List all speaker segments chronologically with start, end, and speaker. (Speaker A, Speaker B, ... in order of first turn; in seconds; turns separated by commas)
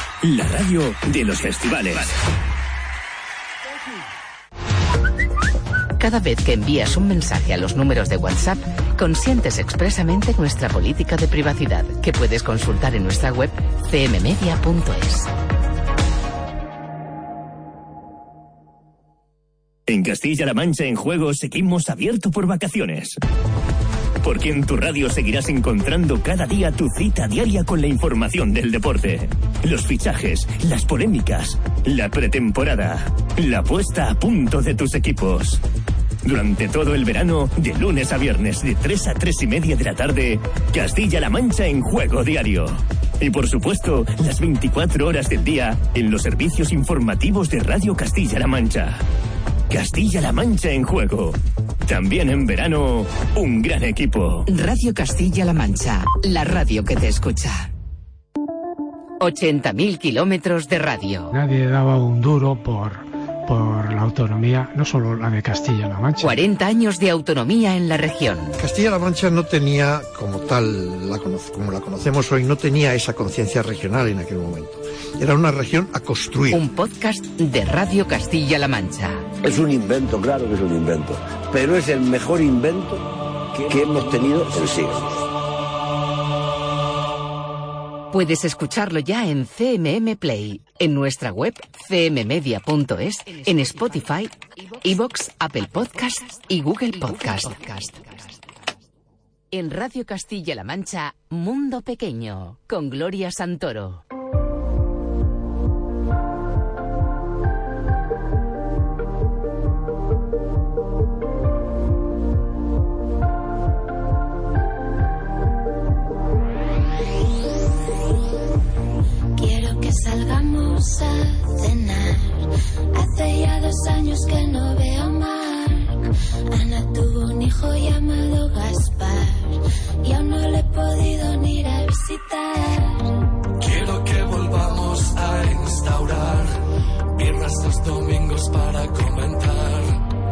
Speaker A: 0.2-2.1, Speaker B: 6.0-15.3, Speaker A: 19.9-23.1, Speaker A: 24.2-35.6, Speaker A: 36.2-49.0, Speaker A: 49.7-54.4, Speaker B: 54.5-57.7, Speaker B: 59.2-61.3, Speaker C: 61.3-66.4, Speaker B: 66.2-68.6, Speaker D: 68.6-76.6, Speaker B: 76.5-79.2, Speaker E: 79.4-83.0, Speaker E: 83.5-85.1, Speaker B: 88.1-98.3, Speaker B: 99.5-104.0, Speaker F: 119.4-133.1, Speaker G: 133.6-136.5, Speaker G: 137.1-140.0